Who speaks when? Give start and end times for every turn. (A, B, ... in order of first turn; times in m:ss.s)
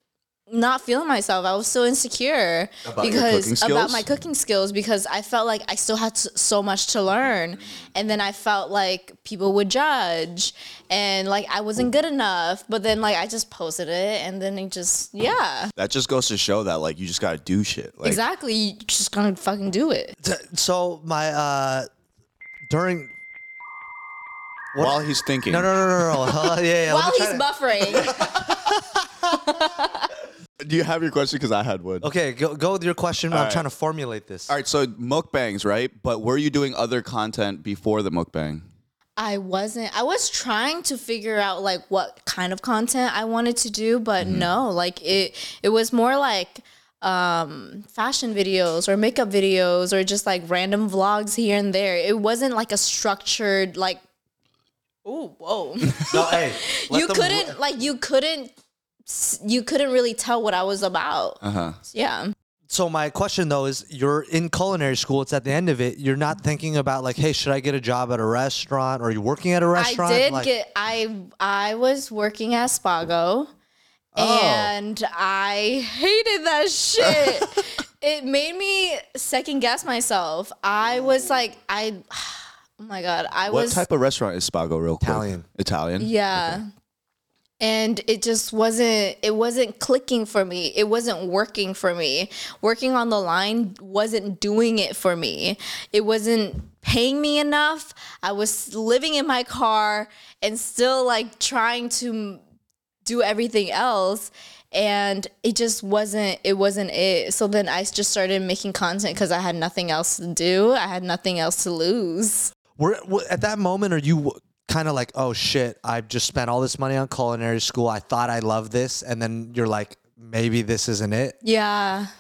0:00.5-0:15.7 A
0:02.8-0:04.0 B
0:15.8-0:18.2 B
0:18.0-0:20.2 A
0:20.2-0:21.9 C
0:22.7-0:23.1 C
0:24.7-0:29.4 C
0:24.8-0:26.4 B
0:26.9-0:28.3 A
0:29.4-0:30.1 A
0:30.6-0:32.1 B
0:32.0-0:34.5 C
0:33.3-0:33.6 B
0:34.5-0:38.6 B
0:39.2-0:54.0 A
0:44.2-0:44.5 B
0:55.0-0:58.5 A
0:56.1-0:57.6 C
0:59.1-1:02.3 A
1:01.4-1:01.8 B
1:02.7-1:10.5 C
1:09.8-1:13.5 A
1:14.2-1:14.7 C
1:14.2-1:23.8 A
1:23.5-1:26.6 B
1:25.0-1:25.4 C
1:26.0-1:26.7 A
1:27.6-1:42.4 A
1:43.0-1:52.5 A
1:52.8-2:01.4 C
2:01.4-2:02.1 A